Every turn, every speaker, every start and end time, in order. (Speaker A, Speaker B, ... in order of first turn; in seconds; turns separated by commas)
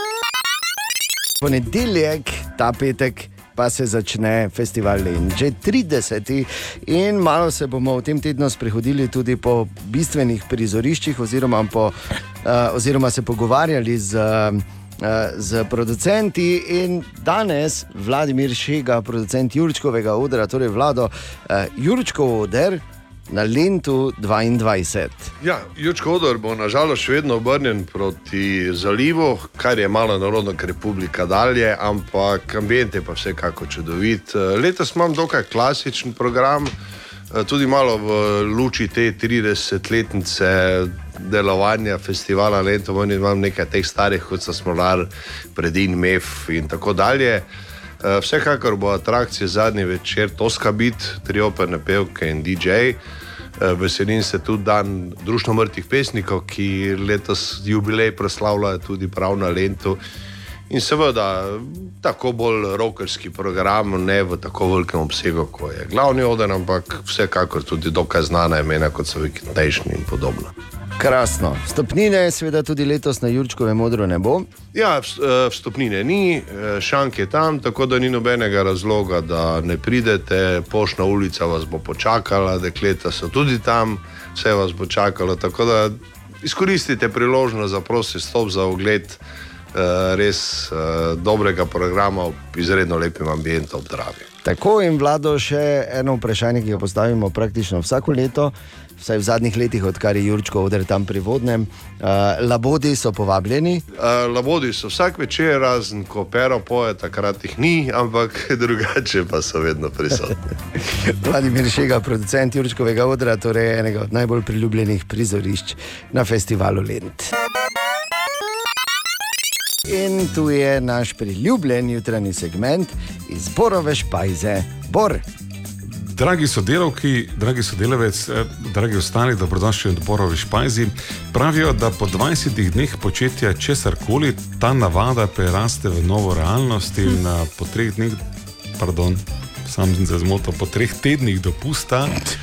Speaker A: 1.4-25.3, Speaker B: 25.4-36.7, Speaker B: 37.3-47.5, Speaker B: 48.0-53.0, Speaker B: 53.6-60.0, Speaker B: 60.7-70.5, Speaker A: 71.0-74.5, Speaker B: 74.7-89.2, Speaker B: 89.7-94.3, Speaker A: 94.4-103.8, Speaker B: 104.0-110.5, Speaker A: 110.8-117.3, Speaker A: 119.8-125.2, Speaker C: 125.8-138.2, Speaker C: 138.8-142.2